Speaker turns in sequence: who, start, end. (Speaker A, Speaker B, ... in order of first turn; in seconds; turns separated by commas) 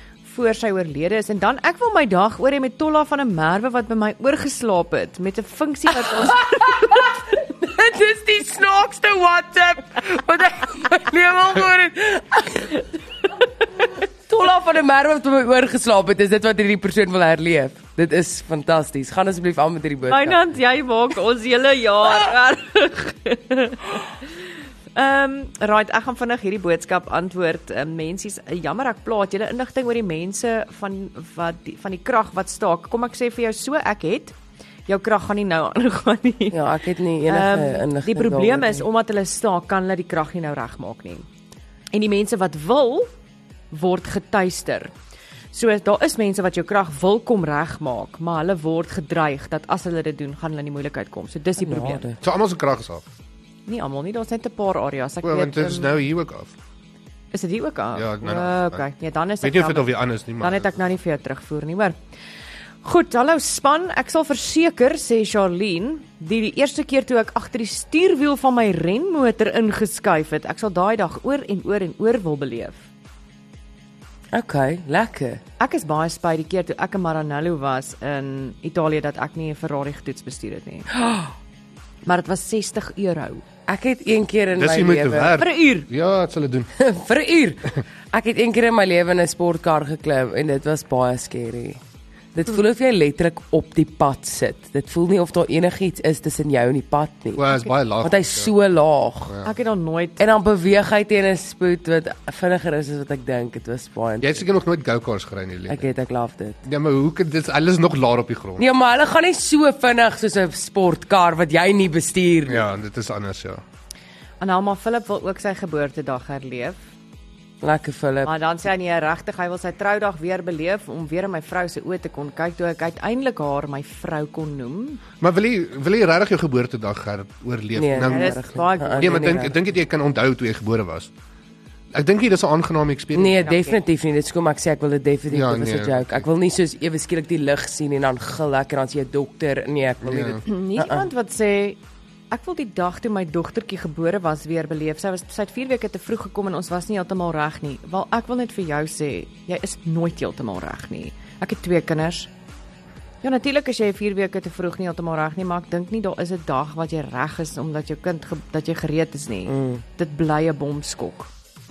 Speaker A: 0.2-7.0, Speaker B: 6.6-12.8, Speaker B: 14.3-20.4, Speaker A: 20.1-24.2, Speaker A: 24.9-34.4, Speaker A: 34.9-36.6, Speaker B: 36.5-38.9, Speaker A: 37.3-41.3, Speaker A: 41.9-43.1, Speaker A: 43.7-44.9, Speaker A: 45.5-52.1, Speaker B: 51.6-52.2, Speaker C: 52.2-53.0, Speaker A: 53.7-55.9, Speaker C: 55.2-56.5, Speaker A: 57.3-62.0, Speaker C: 58.0-58.9, Speaker C: 59.4-60.7, Speaker A: 62.8-72.8, Speaker B: 74.3-75.4, Speaker A: 75.6-80.9, Speaker A: 82.0-83.4, Speaker B: 83.7-85.4, Speaker C: 84.6-86.7, Speaker A: 85.4-85.9, Speaker B: 86.8-91.8, Speaker B: 92.3-99.4, Speaker C: 97.3-98.5, Speaker A: 99.4-100.2, Speaker B: 100.2-104.4, Speaker C: 104.2-105.9, Speaker B: 105.7-106.6, Speaker C: 106.7-108.7, Speaker B: 108.6-112.6, Speaker C: 112.5-113.6, Speaker A: 114.4-116.8, Speaker B: 117.6-118.3, Speaker A: 118.2-125.0, Speaker C: 125.2-131.1, Speaker B: 127.8-129.5, Speaker A: 128.1-129.5, Speaker C: 131.9-133.5, Speaker B: 133.2-141.1, Speaker A: 133.5-133.8, Speaker C: 135.3-136.3, Speaker C: 140.0-140.4, Speaker A: 140.4-141.8, Speaker A: 142.3-152.3, Speaker A: 153.2-161.3, Speaker B: 159.5-159.8